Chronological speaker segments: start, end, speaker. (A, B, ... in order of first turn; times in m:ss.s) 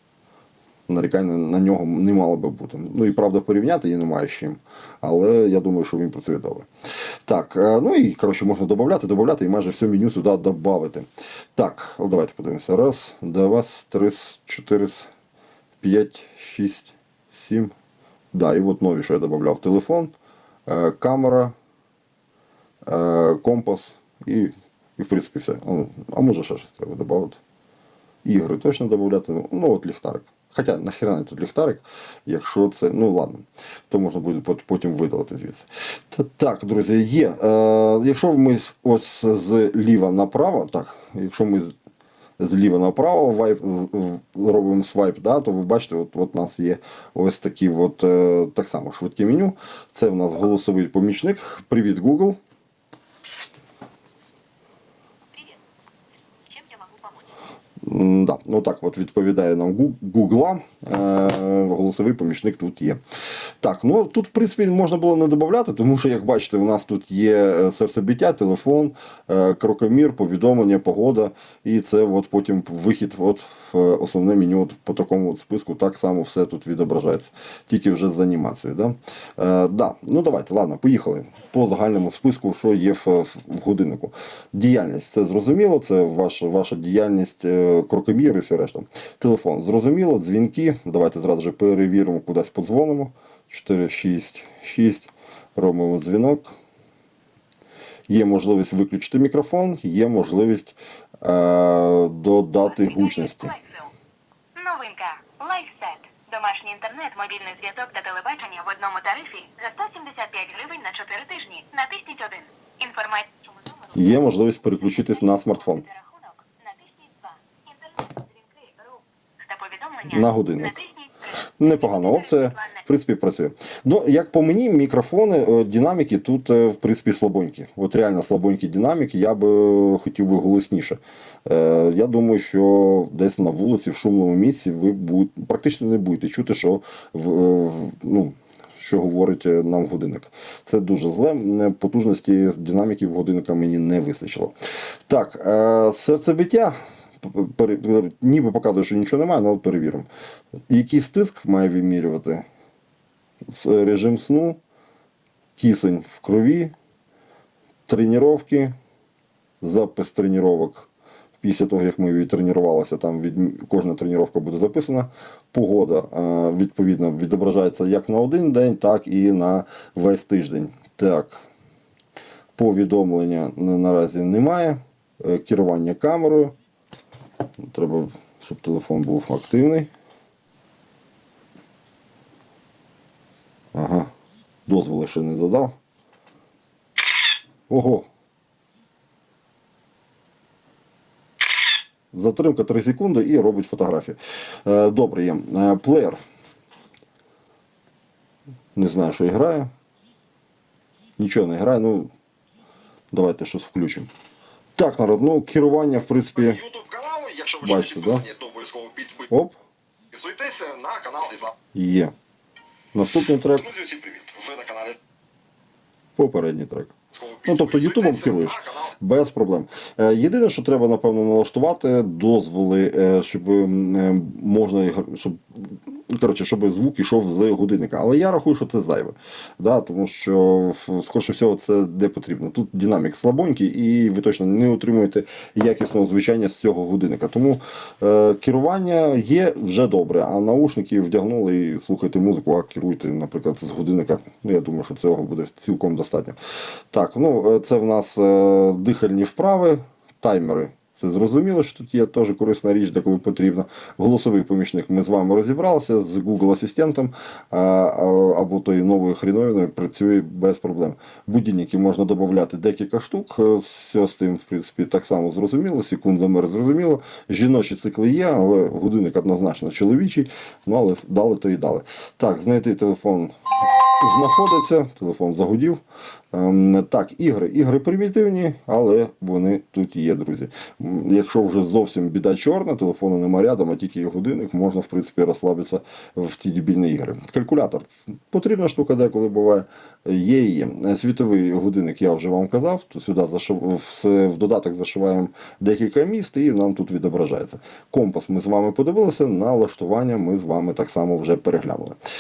0:00.9-0:06.7 A
0:07.3-0:15.1 A
0:15.8-0:17.7 A
0:18.3-0:20.1 A
0:20.7-0:21.5 A
0:22.9-0:27.4 A
0:28.2-0:41.7 A
0:42.4-0:52.4 A
0:55.3-0:55.6 B
0:56.5-0:57.4 B
0:57.8-1:03.0 A
1:03.6-1:36.5 A
1:38.1-1:43.5 A
1:42.7-1:43.9 B
1:44.6-2:02.8 B
1:54.0-1:55.8 A
2:00.1-2:00.8 A
2:01.6-2:24.5 A
2:25.1-2:30.1 A
2:30.7-2:32.5 A
2:33.5-2:34.6 A
2:35.6-2:36.7 A
2:37.9-2:38.7 A
2:39.6-2:40.9 A
2:41.4-2:51.4 A
2:52.6-2:56.5 A
2:57.6-2:59.9 A
3:03.7-3:04.1 A
3:04.7-3:05.8 A
3:07.7-3:08.1 A
3:12.1-3:16.2 A
3:18.8-3:19.7 A
3:21.2-3:22.1 A
3:23.1-3:24.1 A
3:24.8-3:26.6 A
3:26.6-3:27.6 C
3:27.6-3:28.3 A
3:28.2-3:29.3 C
3:29.1-3:29.6 A
3:30.1-3:31.5 C
3:31.6-3:32.1 A
3:32.9-3:33.9 A
3:33.8-3:35.0 C
3:36.2-4:06.4 A
3:37.2-3:37.8 C
4:06.9-4:33.3 A
4:34.0-4:35.8 A
4:36.3-5:02.0 A